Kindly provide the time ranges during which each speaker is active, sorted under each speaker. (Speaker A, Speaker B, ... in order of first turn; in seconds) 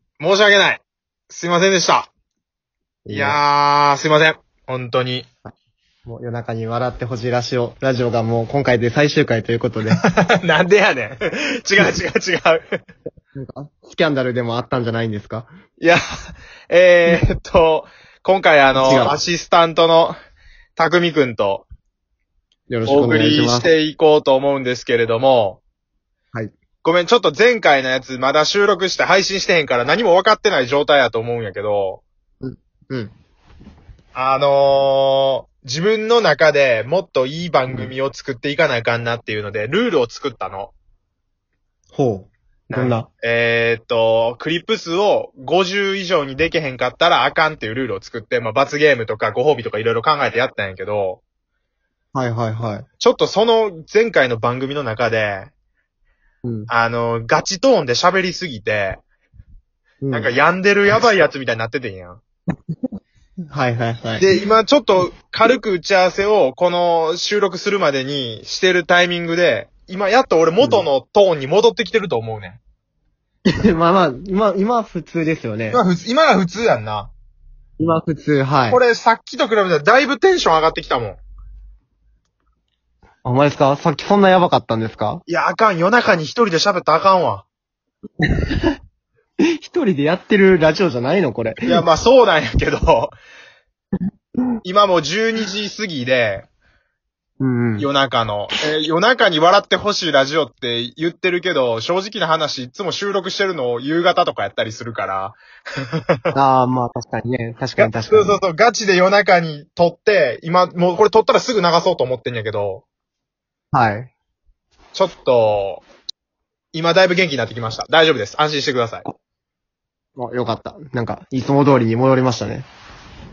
Speaker A: 0.2-2.1, 3.1-5.3, 9.9-12.8, 16.7-20.2, 20.8-21.7, 22.9-25.6, 26.8-32.0, 34.1-40.7, 42.7-51.2, 53.0-55.5, 56.7-59.0, 60.1-62.2, 64.2-72.6, 75.7-77.1, 78.7-81.2, 85.3-87.5, 91.7-93.2, 94.6-96.5, 97.8-106.3, 107.8-112.8, 114.9-115.8, 116.7-119.1
Speaker B: 3.0-3.4, 6.1-10.0, 13.3-15.5, 18.8-19.2, 22.7-23.7, 32.4-33.1, 41.9-43.1, 52.1-52.9, 56.4-56.7, 60.0-60.3, 63.5-64.3, 70.6-70.9, 73.6-75.8, 77.8-78.8, 83.2-85.2, 88.4-88.8, 89.6-91.8, 97.4-97.9, 106.3-108.4, 113.7-114.1, 120.2-122.7